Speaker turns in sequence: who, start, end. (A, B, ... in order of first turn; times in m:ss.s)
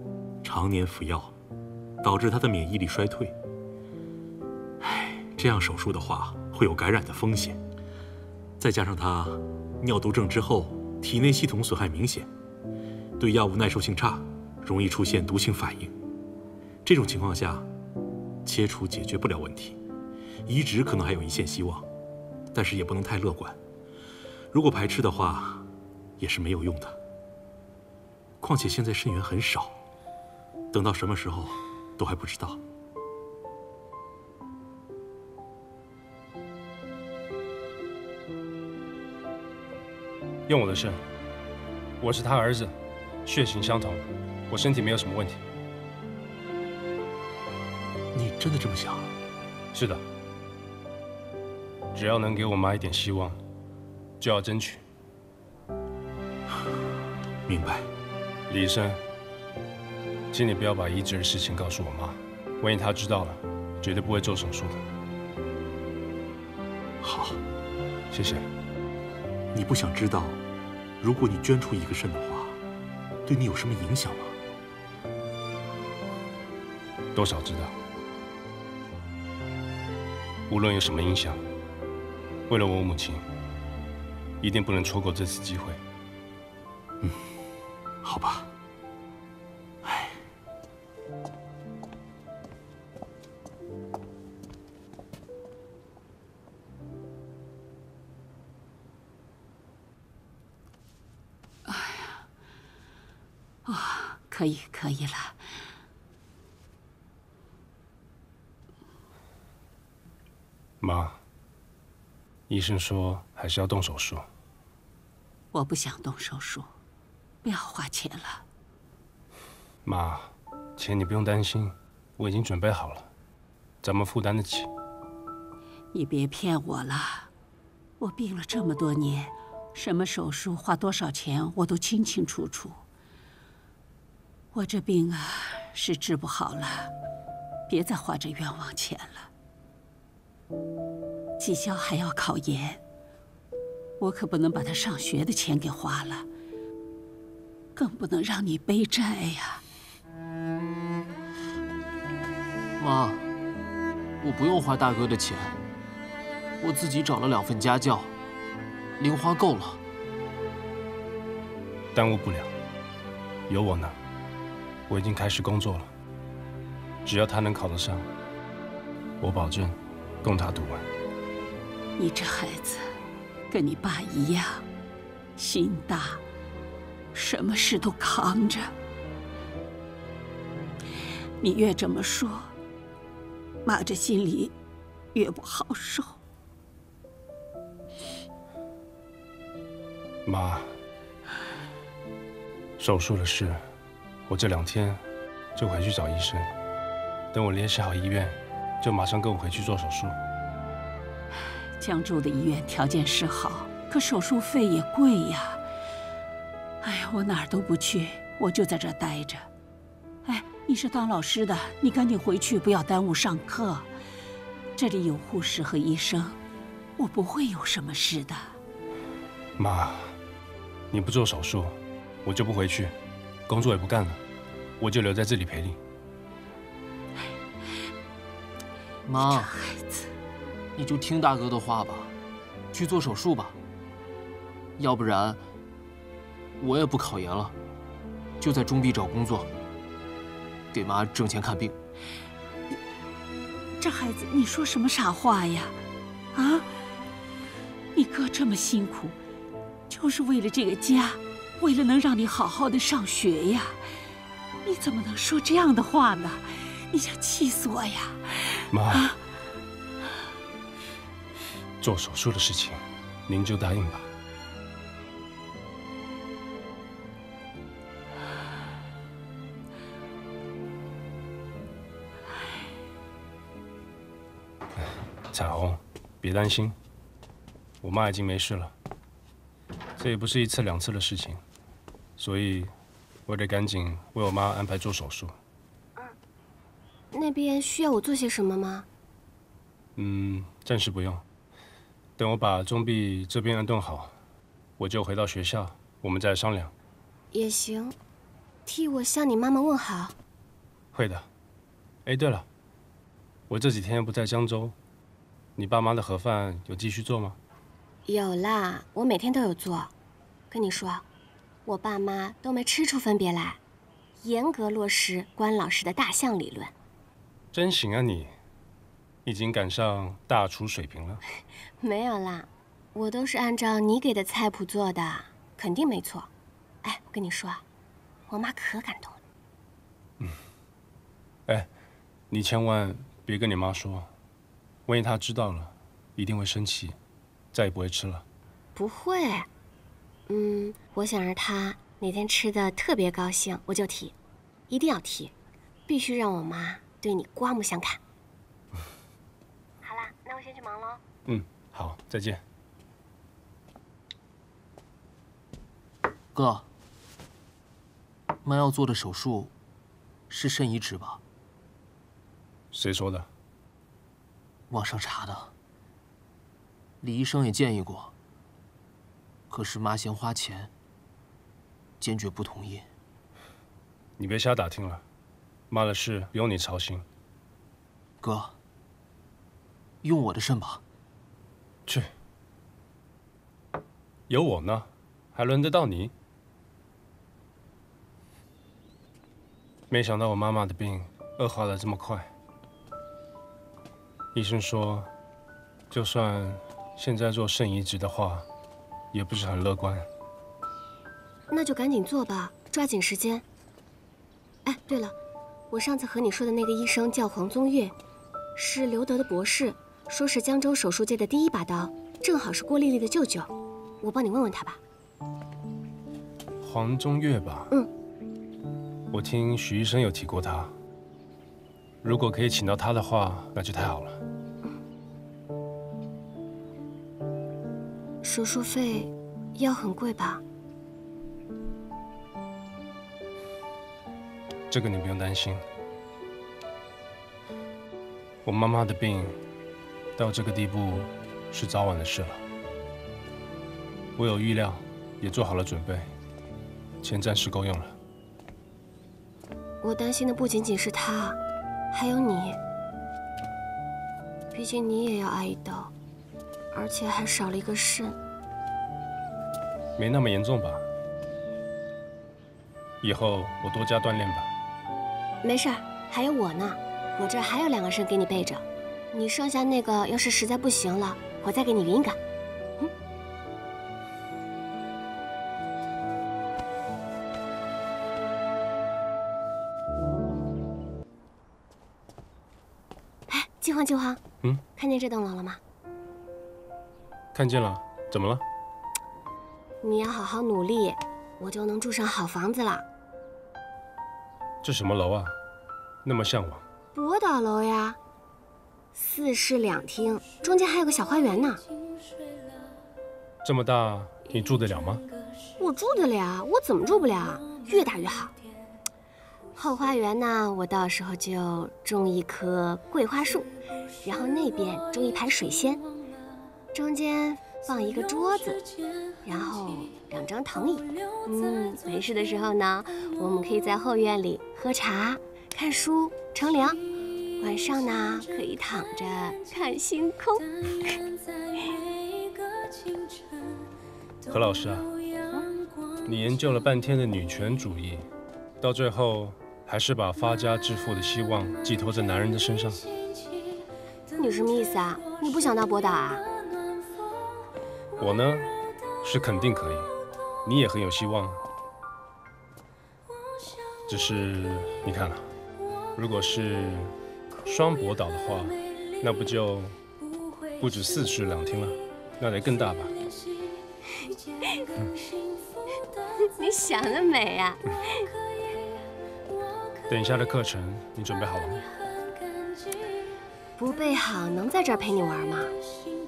0:00.4-0:01.3 A
0:02.0-0:03.4 A
0:04.8-0:07.6 A
0:08.6-0:12.3 A
0:13.2-0:15.9 A
0:16.8-0:17.7 A
0:18.4-0:19.8 A
0:20.5-0:21.9 A
0:22.5-0:23.6 A
0:24.5-0:25.7 A
0:26.2-0:27.0 A
0:28.4-0:29.8 A
0:30.7-0:32.6 A
0:40.5-0:41.0 B
0:42.0-0:42.7 B
0:43.2-0:45.4 B
0:48.1-0:49.1 A
0:49.7-0:50.0 B
0:51.9-0:53.4 B
0:54.2-0:54.8 B
0:57.5-0:57.9 A
0:58.5-0:59.0 B
1:00.3-1:04.8 B
1:07.0-1:07.4 A
1:08.1-1:08.4 B
1:09.5-1:10.4 A
1:11.0-1:12.6 A
1:13.3-1:14.4 A
1:17.1-1:17.7 B
1:20.5-1:21.4 B
1:22.5-1:23.2 B
1:24.4-1:25.8 B
1:28.0-1:28.5 A
1:29.8-1:30.1 A
1:41.7-1:42.2 C
1:43.6-1:45.4 C
1:50.8-1:51.2 B
1:52.5-1:54.2 B
1:55.5-1:56.7 C
1:57.4-1:58.4 C
1:59.8-2:03.1 B
2:03.8-2:04.7 B
2:05.9-2:07.3 C
2:08.0-2:12.8 C
2:14.5-2:16.9 C
2:17.7-2:19.3 C
2:21.4-2:22.8 C
2:24.0-2:26.3 C
2:27.7-2:29.6 C
2:32.8-2:33.3 D
2:34.2-2:35.6 D
2:36.6-2:38.1 D
2:39.0-2:39.8 D
2:41.9-2:42.5 B
2:43.5-2:44.0 B
2:44.9-2:45.9 B
2:47.0-2:48.1 B
2:49.2-2:50.8 B
2:52.0-2:52.8 C
2:53.5-2:54.6 C
2:55.4-2:56.2 C
2:57.1-2:58.7 C
3:01.4-3:02.5 C
3:03.6-3:04.5 C
3:05.1-3:06.2 C
3:10.2-3:10.7 B
3:12.8-3:13.6 B
3:14.3-3:15.0 B
3:15.6-3:16.5 B
3:17.3-3:20.1 B
3:21.8-3:25.6 C
3:26.8-3:29.5 C
3:30.2-3:33.9 C
3:34.8-3:36.4 C
3:37.0-3:38.6 C
3:39.6-3:40.1 B
3:40.9-3:42.9 B
3:43.5-3:44.2 B
3:44.8-3:45.8 B
3:49.0-3:49.5 D
3:49.2-3:50.1 C
3:50.8-3:52.1 D
3:52.7-3:53.6 D
3:54.8-3:55.4 D
3:56.6-3:57.6 D
3:58.4-3:59.5 D
4:00.7-4:01.8 D
4:03.8-4:05.7 C
4:06.3-4:06.6 C
4:07.9-4:09.2 C
4:09.9-4:13.8 C
4:14.6-4:19.2 C
4:18.7-4:19.1 B
4:21.8-4:24.1 B
4:35.3-4:36.7 B
4:37.8-4:38.7 B
4:40.0-4:41.4 B
4:42.2-4:42.7 B
4:43.3-4:45.3 B
4:47.1-4:48.8 E
4:50.0-4:51.2 B
4:52.2-4:54.1 B
4:54.8-4:56.7 B
4:57.3-4:57.9 E
4:58.6-5:00.1 E
5:00.9-5:01.3 B
5:02.0-5:02.4 B
5:03.5-5:04.8 B
5:05.6-5:07.4 B
5:08.0-5:09.9 E
5:10.5-5:11.0 E
5:11.6-5:13.6 E
5:14.2-5:16.7 E
5:17.5-5:18.3 B
5:19.2-5:21.2 B
5:21.8-5:26.3 E
5:26.8-5:27.6 E
5:28.3-5:29.2 E
5:32.3-5:34.1 B
5:34.9-5:37.0 B
5:37.5-5:38.2 B
5:38.8-5:39.5 E
5:40.3-5:44.1 E
5:44.7-5:45.3 E
5:45.9-5:48.0 E
5:49.8-5:51.0 E
5:51.2-5:52.4 B
5:56.3-5:56.7 D
5:58.4-5:59.5 D
6:00.3-6:01.2 D
6:02.7-6:03.3 B
6:04.7-6:05.5 D
6:07.0-6:08.1 D
6:09.5-6:10.7 D
6:12.0-6:12.8 D
6:14.2-6:15.0 B
6:15.7-6:17.0 B
6:18.2-6:18.5 D
6:20.0-6:20.8 D
6:24.3-6:26.1 B
6:29.9-6:32.3 B
6:34.3-6:35.1 B
6:35.9-6:38.4 B
6:39.1-6:40.1 B
6:41.5-6:43.4 E
6:44.6-6:45.1 E
6:45.7-6:47.9 E
6:48.6-6:54.8 E
6:56.6-6:57.7 B
6:59.1-7:00.7 B
7:02.0-7:04.2 B
7:08.2-7:10.4 E
7:14.7-7:15.6 B
7:18.4-7:19.3 B
7:20.2-7:22.4 B
7:24.2-7:26.1 B
7:27.0-7:27.9 B
7:29.8-7:31.4 E
7:31.9-7:32.6 E
7:34.5-7:35.9 E
7:36.7-7:38.2 E
7:40.0-7:40.8 B
7:43.0-7:44.5 B
7:45.4-7:52.2 E
8:03.3-8:04.2 E
8:04.7-8:05.6 E
8:07.3-8:08.4 B
8:09.8-8:12.8 E
8:14.6-8:15.4 B
8:16.0-8:16.6 B
8:16.9-8:18.0 E
8:18.9-8:21.6 E
8:23.4-8:25.0 B
8:25.6-8:28.3 E
8:29.5-8:33.5 E
8:34.0-8:35.8 E
8:36.7-8:38.6 E
8:39.2-8:46.8 E
8:47.4-8:50.5 E
8:54.2-8:54.9 B
8:56.0-8:58.0 B
8:58.6-9:02.8 B
9:04.2-9:06.2 E
9:08.0-9:09.9 B
9:10.4-9:11.4 B
9:13.9-9:15.3 B
9:15.9-9:16.9 B
9:17.4-9:19.7 B
9:20.6-9:23.0 B
9:26.4-9:28.1 E
9:29.9-9:31.6 B
9:33.6-9:35.5 E